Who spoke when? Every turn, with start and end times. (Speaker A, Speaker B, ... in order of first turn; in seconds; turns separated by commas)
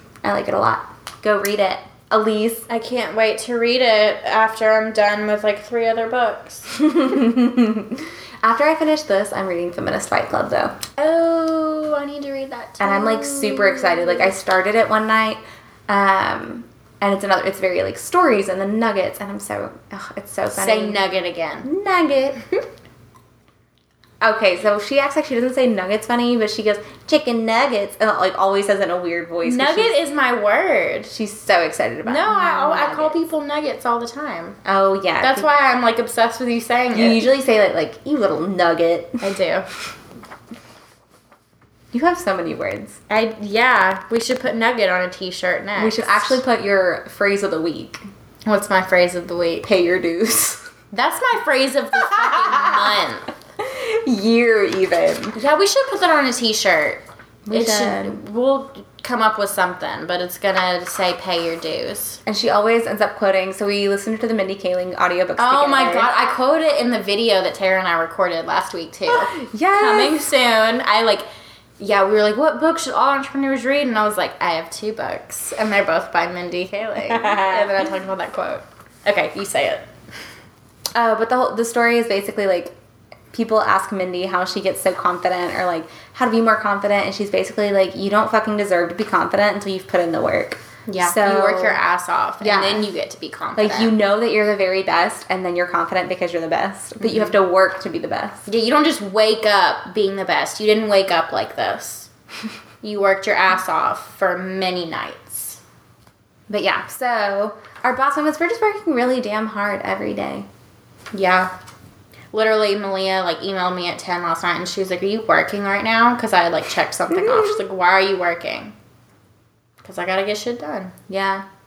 Speaker A: 0.2-2.7, Speaker B: 2.7-6.7, Speaker A: 6.7-10.8, Speaker B: 11.0-14.3, Speaker A: 12.8-21.0, Speaker B: 20.5-21.7, Speaker A: 21.6-22.4, Speaker A: 24.2-30.0, Speaker B: 29.4-31.1, Speaker A: 31.1-33.2, Speaker B: 32.0-34.6, Speaker A: 34.6-35.5, Speaker B: 35.2-37.3, Speaker A: 36.9-39.2, Speaker B: 39.2-39.7, Speaker A: 41.9-43.0, Speaker B: 43.1-46.4, Speaker A: 45.8-48.0, Speaker B: 48.5-49.6, Speaker A: 49.6-50.7, Speaker B: 50.9-53.3, Speaker A: 52.0-52.9, Speaker A: 53.6-55.4, Speaker B: 55.3-62.2, Speaker A: 57.5-58.2, Speaker A: 62.2-66.1, Speaker B: 65.4-71.2, Speaker A: 69.1-70.3, Speaker B: 71.8-79.8, Speaker A: 77.0-77.9, Speaker A: 80.9-82.7, Speaker A: 83.3-91.8, Speaker B: 90.9-93.9, Speaker A: 92.4-92.9, Speaker A: 93.5-98.4, Speaker B: 97.0-97.3, Speaker B: 98.5-102.1, Speaker B: 102.8-105.6, Speaker A: 106.5-110.5, Speaker B: 111.1-111.5, Speaker B: 112.3-118.7, Speaker A: 117.1-117.6, Speaker B: 119.8-120.9, Speaker A: 121.1-121.4